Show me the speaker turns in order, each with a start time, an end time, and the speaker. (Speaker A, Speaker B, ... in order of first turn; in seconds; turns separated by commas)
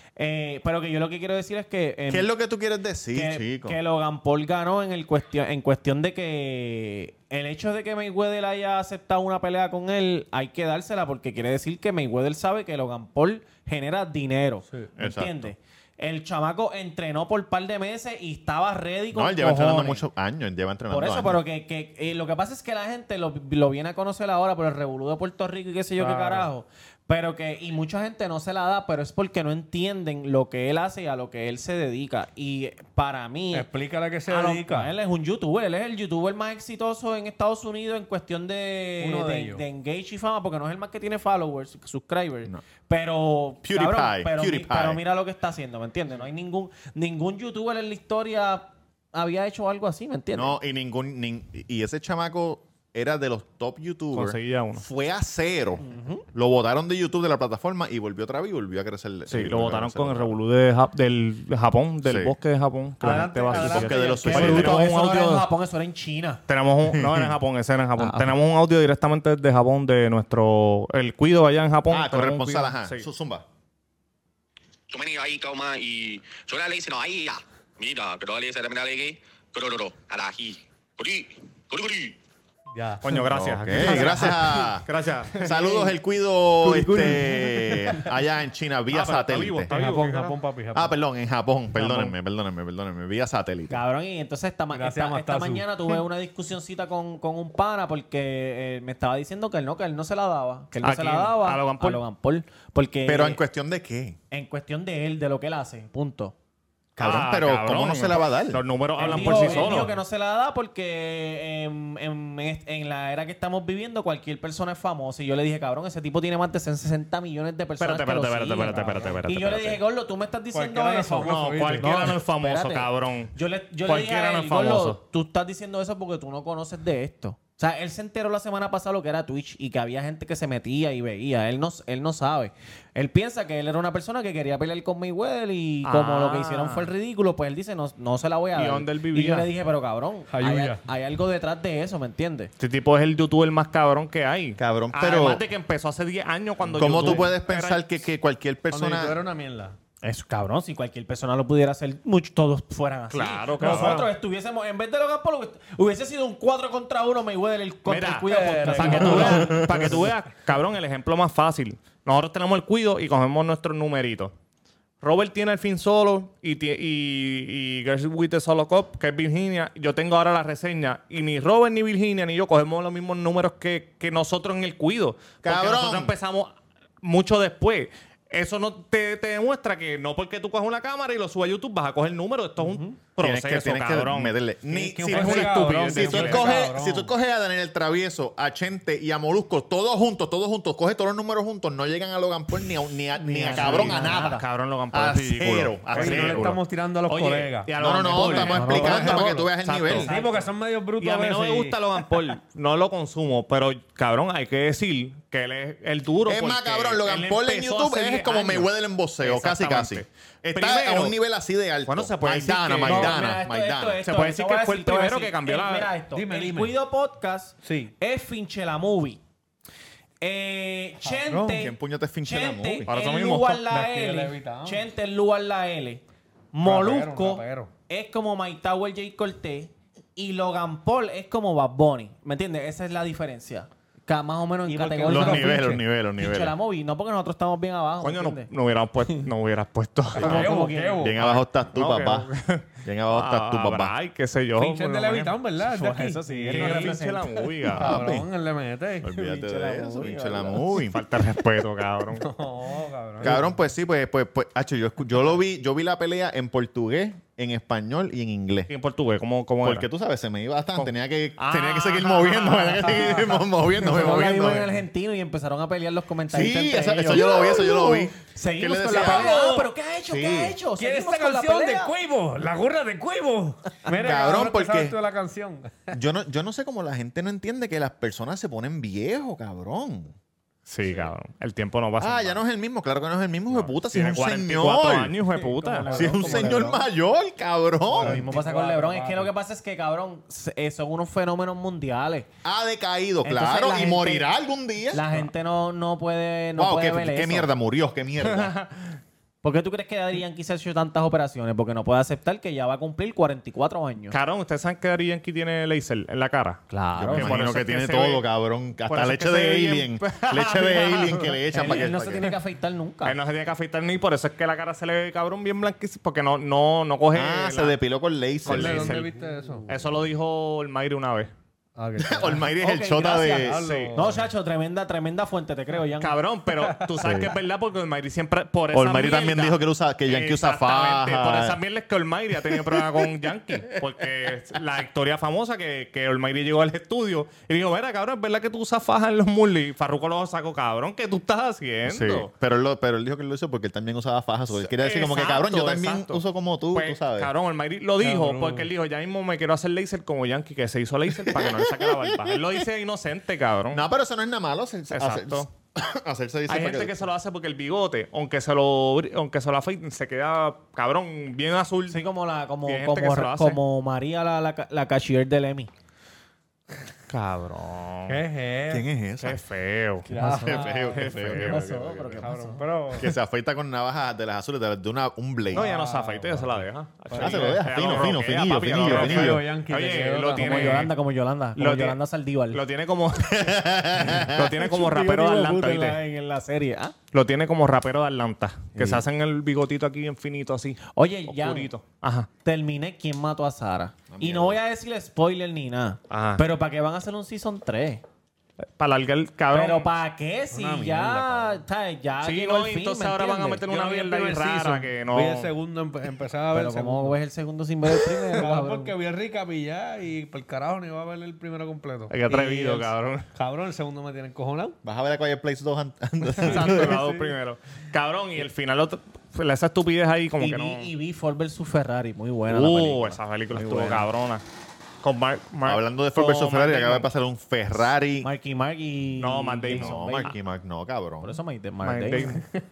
Speaker A: 0.2-2.3, Speaker B: 2.1-3.8, Speaker A: 3.1-20.1, Speaker B: 15.0-15.5, Speaker B: 19.1-21.4, Speaker A: 20.9-33.7, Speaker C: 26.0-26.5, Speaker C: 33.5-34.9, Speaker A: 34.3-50.6, Speaker C: 39.0-39.6, Speaker B: 43.6-45.0, Speaker B: 50.3-60.4, Speaker D: 54.1-54.8, Speaker A: 55.8-56.2, Speaker D: 59.3-65.5, Speaker B: 62.0-62.3, Speaker C: 63.0-64.7, Speaker B: 63.0-64.9, Speaker A: 64.2-66.4, Speaker D: 66.5-73.1, Speaker B: 66.9-67.4, Speaker A: 68.0-68.3, Speaker B: 71.9-73.5, Speaker E: 74.9-82.2, Speaker C: 82.7-83.2, Speaker D: 83.0-85.5, Speaker B: 83.3-89.7, Speaker C: 83.8-84.3, Speaker C: 85.4-85.9, Speaker C: 86.6-88.1, Speaker D: 88.9-90.4, Speaker C: 89.7-91.0, Speaker B: 90.7-93.8, Speaker C: 91.8-92.1, Speaker A: 93.7-103.4, Speaker C: 94.7-95.7, Speaker D: 100.8-102.0, Speaker B: 103.0-104.2, Speaker A: 104.3-106.3, Speaker B: 107.0-108.6, Speaker D: 107.0-109.9, Speaker C: 109.0-110.0, Speaker A: 109.0-142.5, Speaker D: 117.8-119.8, Speaker C: 118.7-119.2, Speaker C: 120.5-122.2, Speaker D: 121.2-123.3, Speaker D: 123.8-125.0, Speaker D: 135.8-136.9, Speaker D: 138.6-139.5, Speaker C: 140.3-140.8, Speaker D: 142.6-147.8, Speaker B: 144.6-145.4, Speaker C: 146.7-147.3, Speaker B: 146.8-149.2, Speaker C: 148.7-149.8, Speaker A: 150.0-159.8, Speaker D: 153.1-154.1, Speaker C: 153.6-154.1, Speaker D: 157.9-164.3, Speaker C: 158.3-160.0, Speaker B: 159.3-159.7, Speaker D: 165.0-184.3, Speaker B: 175.4-176.1, Speaker A: 182.6-183.0, Speaker B: 183.2-194.4, Speaker C: 184.7-187.1, Speaker D: 185.1-186.7, Speaker A: 193.2-194.4, Speaker D: 193.5-200.2, Speaker B: 194.9-196.6, Speaker C: 195.9-199.4, Speaker B: 197.8-200.1, Speaker A: 198.3-199.4, Speaker A: 199.9-200.5, Speaker C: 200.0-201.8, Speaker D: 201.0-208.7, Speaker B: 206.3-214.0, Speaker D: 209.2-211.2, Speaker D: 211.9-213.2, Speaker A: 212.8-219.2, Speaker D: 214.0-215.9, Speaker C: 216.1-216.8, Speaker C: 217.6-217.9, Speaker A: 220.2-238.5, Speaker C: 221.1-221.6, Speaker B: 221.6-222.9, Speaker D: 222.9-223.6, Speaker C: 223.7-224.9, Speaker C: 226.6-227.7, Speaker C: 234.7-235.8, Speaker B: 235.1-236.6, Speaker D: 238.0-240.7, Speaker A: 240.2-241.1, Speaker C: 240.2-241.2, Speaker B: 241.0-242.3, Speaker D: 241.2-245.4, Speaker B: 242.8-243.9, Speaker C: 244.6-247.0, Speaker A: 245.6-247.5, Speaker D: 246.5-248.1, Speaker C: 247.7-249.1, Speaker B: 247.7-248.3, Speaker B: 249.0-251.0, Speaker A: 249.1-250.7, Speaker D: 250.8-252.3, Speaker C: 252.2-253.5, Speaker B: 253.2-258.7, Speaker D: 258.7-259.9, Speaker B: 259.6-264.8, Speaker D: 260.8-263.4, Speaker A: 263.8-271.9, Speaker B: 266.3-269.4, Speaker C: 268.9-269.7, Speaker B: 270.1-270.6, Speaker C: 270.8-276.0, Speaker B: 274.0-275.0, Speaker B: 275.9-280.1, Speaker D: 280.7-282.4, Speaker B: 282.0-285.2, Speaker D: 283.5-286.0, Speaker C: 285.4-286.7, Speaker A: 285.6-286.9, Speaker B: 285.9-288.3, Speaker C: 287.9-289.3, Speaker A: 288.0-292.3, Speaker B: 292.4-295.1, Speaker A: 293.2-294.3, Speaker A: 294.9-297.5, Speaker B: 296.6-298.5, Speaker D: 298.2-299.0, Speaker A: 299.4-304.2, Speaker D: 304.1-308.2, Speaker A: 306.7-307.4, Speaker B: 307.0-312.3, Speaker D: 308.9-311.9, Speaker A: 311.5-313.2, Speaker D: 313.1-317.8, Speaker B: 317.1-319.1, Speaker D: 318.4-319.1, Speaker C: 318.5-319.8, Speaker D: 319.7-321.3, Speaker C: 321.8-322.5, Speaker B: 322.0-323.8, Speaker A: 322.6-326.2, Speaker C: 323.4-324.3, Speaker D: 323.6-323.9, Speaker D: 326.0-342.3, Speaker B: 327.0-327.4, Speaker B: 328.7-331.6, Speaker B: 332.5-333.1, Speaker B: 341.9-347.3, Speaker D: 344.6-353.9, Speaker C: 348.0-348.7, Speaker B: 351.2-352.6, Speaker B: 353.7-357.0, Speaker D: 354.9-355.5, Speaker D: 356.5-362.0, Speaker A: 361.9-365.7, Speaker D: 362.7-363.6, Speaker D: 367.1-368.2, Speaker C: 368.1-368.9, Speaker B: 368.7-369.4, Speaker D: 369.2-370.1, Speaker A: 370.1-372.6, Speaker C: 370.1-371.1, Speaker B: 370.2-372.3, Speaker D: 370.9-371.6, Speaker C: 372.2-373.1, Speaker B: 372.9-375.7, Speaker C: 375.5-378.1, Speaker D: 375.5-380.9, Speaker B: 377.1-379.5, Speaker C: 378.8-380.9, Speaker A: 380.4-382.6, Speaker D: 381.6-382.0, Speaker D: 382.5-386.0, Speaker B: 383.3-384.5, Speaker A: 384.3-386.9, Speaker D: 387.1-392.3, Speaker B: 388.8-389.0, Speaker A: 390.9-391.7, Speaker A: 392.4-398.0, Speaker B: 394.1-394.6, Speaker D: 396.1-396.4, Speaker D: 398.8-399.9, Speaker A: 399.5-403.6, Speaker C: 400.5-401.6, Speaker D: 402.2-405.5, Speaker C: 403.7-407.2, Speaker A: 406.5-408.9, Speaker C: 408.3-414.8, Speaker D: 412.1-413.3, Speaker B: 414.8-417.0, Speaker C: 416.4-417.3, Speaker D: 416.4-420.9, Speaker A: 420.4-424.1, Speaker D: 422.5-424.4, Speaker D: 425.0-427.1, Speaker B: 425.6-428.3, Speaker A: 428.2-430.3, Speaker D: 429.2-430.3, Speaker B: 429.7-431.3, Speaker A: 431.2-432.4, Speaker D: 431.8-432.4